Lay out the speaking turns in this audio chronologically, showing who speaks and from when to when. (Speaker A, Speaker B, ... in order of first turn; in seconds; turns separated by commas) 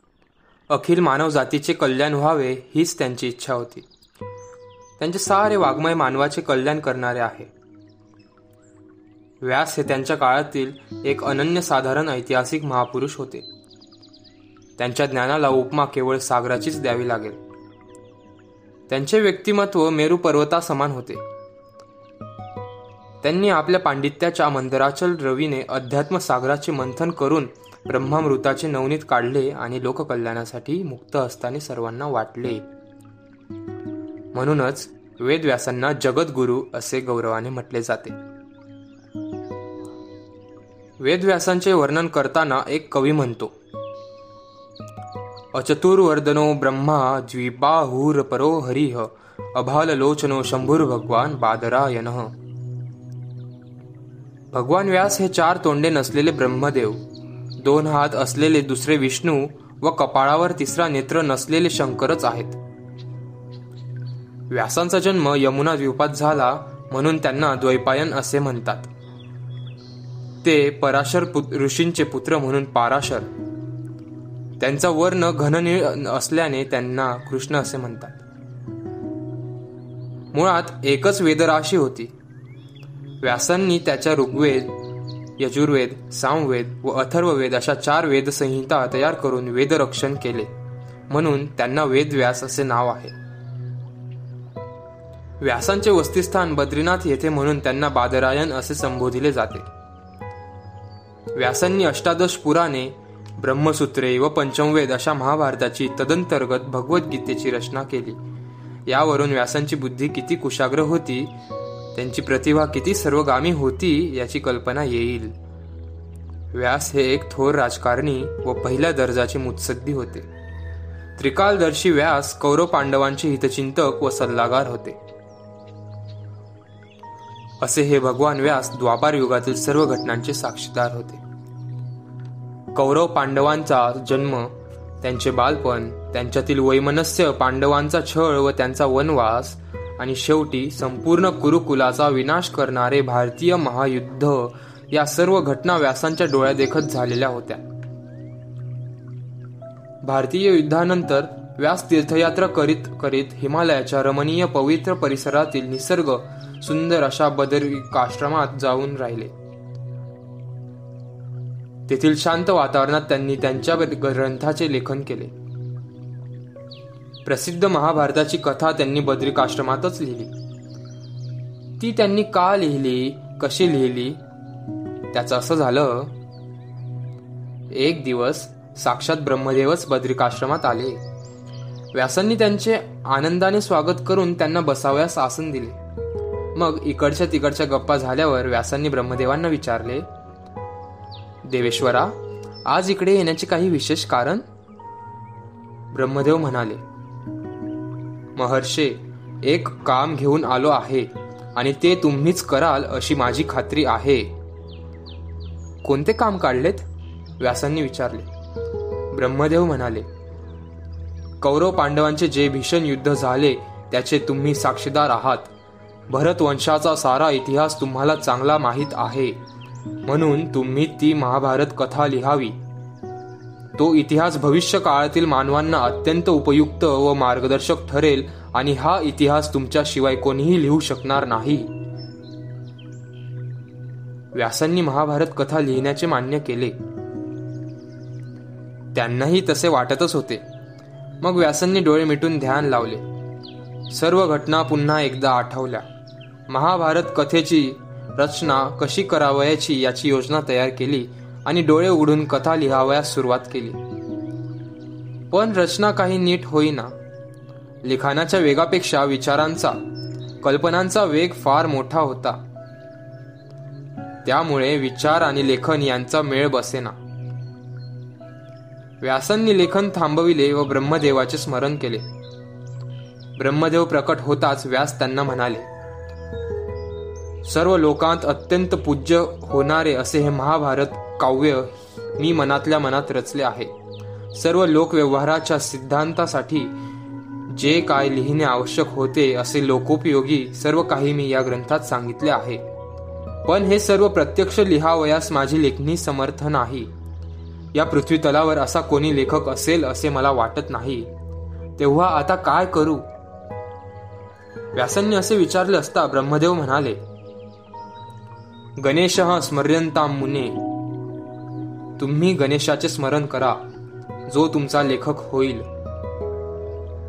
Speaker A: 0.7-3.9, Speaker A: 5.0-7.5, Speaker A: 9.4-13.5, Speaker A: 14.8-17.4, Speaker A: 18.9-21.2, Speaker A: 23.2-32.6, Speaker A: 34.3-38.2, Speaker A: 41.0-43.5, Speaker A: 45.5-52.3, Speaker A: 54.5-57.0, Speaker A: 57.6-62.6, Speaker A: 64.5-68.9, Speaker A: 70.4-73.3, Speaker A: 74.6-78.2, Speaker A: 80.3-82.1, Speaker A: 83.2-84.7, Speaker A: 85.4-90.5, Speaker A: 91.1-93.1, Speaker A: 95.4-99.7, Speaker A: 101.3-108.2, Speaker A: 108.9-111.3, Speaker A: 111.9-115.3, Speaker A: 116.5-120.3, Speaker A: 121.2-125.0, Speaker A: 127.6-131.2, Speaker A: 132.7-147.6, Speaker A: 150.0-159.3, Speaker A: 161.9-165.3, Speaker A: 167.2-170.3, Speaker A: 171.8-174.2, Speaker A: 175.1-176.1, Speaker A: 177.7-181.0, Speaker A: 181.9-185.8, Speaker A: 186.5-190.1, Speaker A: 191.4-194.4, Speaker A: 195.9-196.8, Speaker A: 198.3-204.3, Speaker A: 205.8-206.8, Speaker A: 207.4-208.3, Speaker A: 209.1-210.1, Speaker A: 211.4-215.5, Speaker A: 216.1-219.4, Speaker A: 220.0-222.6, Speaker A: 223.8-231.7, Speaker A: 234.3-236.8, Speaker A: 238.9-240.4, Speaker A: 241.2-243.0, Speaker A: 243.9-245.9, Speaker A: 246.5-253.8, Speaker A: 255.3-256.9, Speaker A: 257.8-259.8, Speaker A: 260.4-262.4, Speaker A: 264.2-266.9, Speaker A: 269.0-272.1, Speaker A: 273.4-275.7, Speaker A: 277.4-283.7, Speaker A: 284.3-286.7, Speaker A: 287.5-292.6, Speaker A: 293.4-296.9, Speaker A: 297.7-301.1, Speaker A: 301.8-303.1, Speaker A: 304.7-307.0, Speaker A: 308.8-310.6, Speaker A: 312.0-313.6, Speaker A: 314.3-315.7